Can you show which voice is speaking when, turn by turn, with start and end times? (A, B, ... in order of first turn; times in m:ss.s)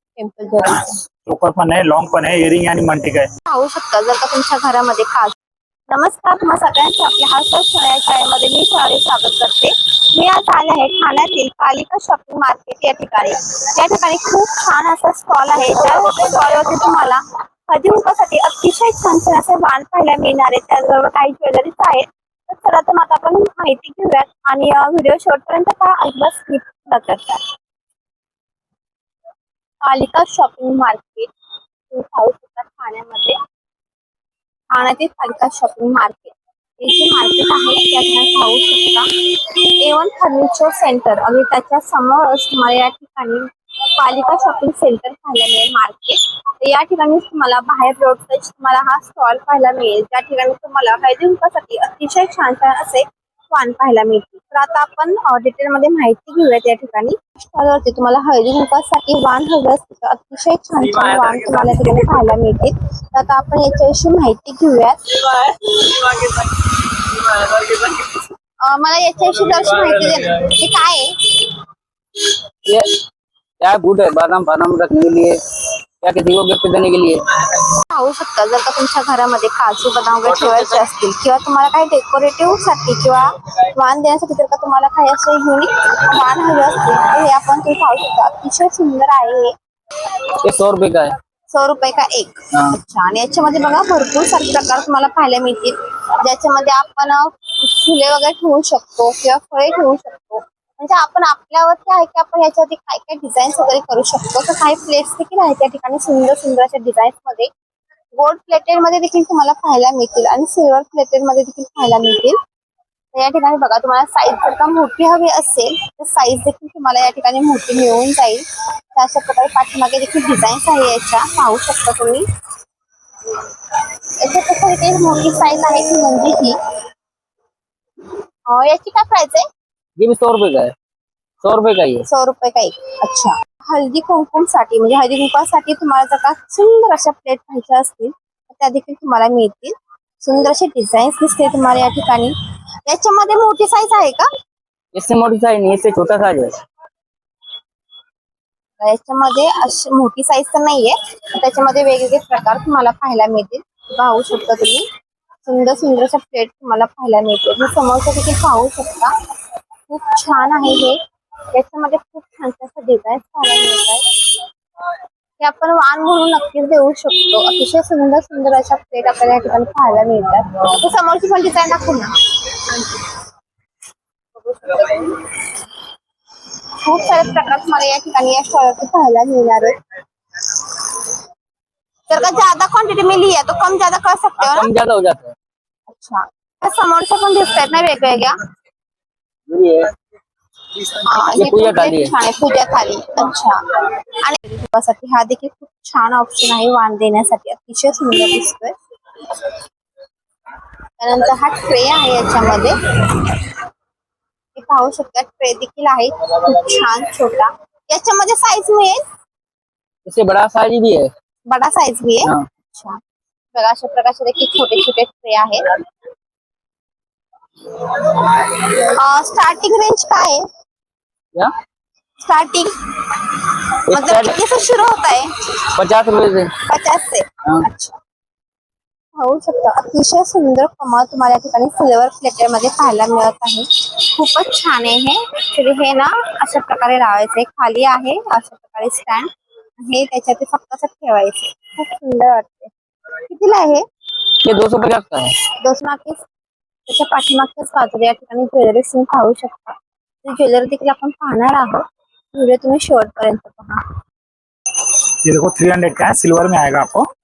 0:00.2-0:01.0 A
0:01.2-0:03.3 B
0:03.5-0:05.3 A
0:05.9-0:27.4 A
0:29.8-0:31.3 A
0:31.9-0:33.4 A
0:34.7-0:39.1 A
0:39.8-1:05.7 A
1:00.8-1:02.2 C
1:08.6-1:11.3 A
1:12.7-1:13.0 C
1:13.6-1:15.4 C
1:16.0-1:17.4 C
1:17.6-1:29.5 A
1:20.3-1:20.8 C
1:30.4-1:31.2 C
1:31.5-1:47.5 A
1:48.1-1:52.4 A
1:53.1-1:58.4 A
1:59.0-2:02.2 A
2:04.2-2:06.6 A
2:08.5-2:09.5 A
2:10.0-2:10.7 C
2:11.4-2:12.1 C
2:12.1-2:22.3 A
2:22.9-2:24.3 A
2:24.9-2:26.6 C
2:28.8-2:34.8 A
2:35.4-2:39.1 A
2:39.9-2:41.0 A
2:41.5-2:44.0 A
2:45.4-2:53.0 A
2:54.3-2:55.4 A
2:56.8-2:59.8 A
3:00.4-3:00.7 A
3:02.1-3:04.7 A
3:04.4-3:05.3 C
3:05.9-3:08.4 A
3:09.5-3:09.9 C
3:10.8-3:18.8 A
3:11.3-3:12.1 C
3:21.0-3:23.2 A
3:24.6-3:29.0 A
3:30.1-3:31.1 C
3:31.5-3:33.0 A
3:33.6-3:35.7 A
3:37.8-3:40.4 A
3:42.2-3:45.4 A
3:43.9-3:44.4 C
3:45.8-3:46.5 C
3:46.7-3:48.0 A
3:49.2-3:59.3 A
3:59.8-4:02.7 A
4:03.3-4:03.8 A
4:04.4-4:05.3 C
4:05.6-4:06.2 A
4:06.9-4:13.8 A
4:15.2-4:17.1 B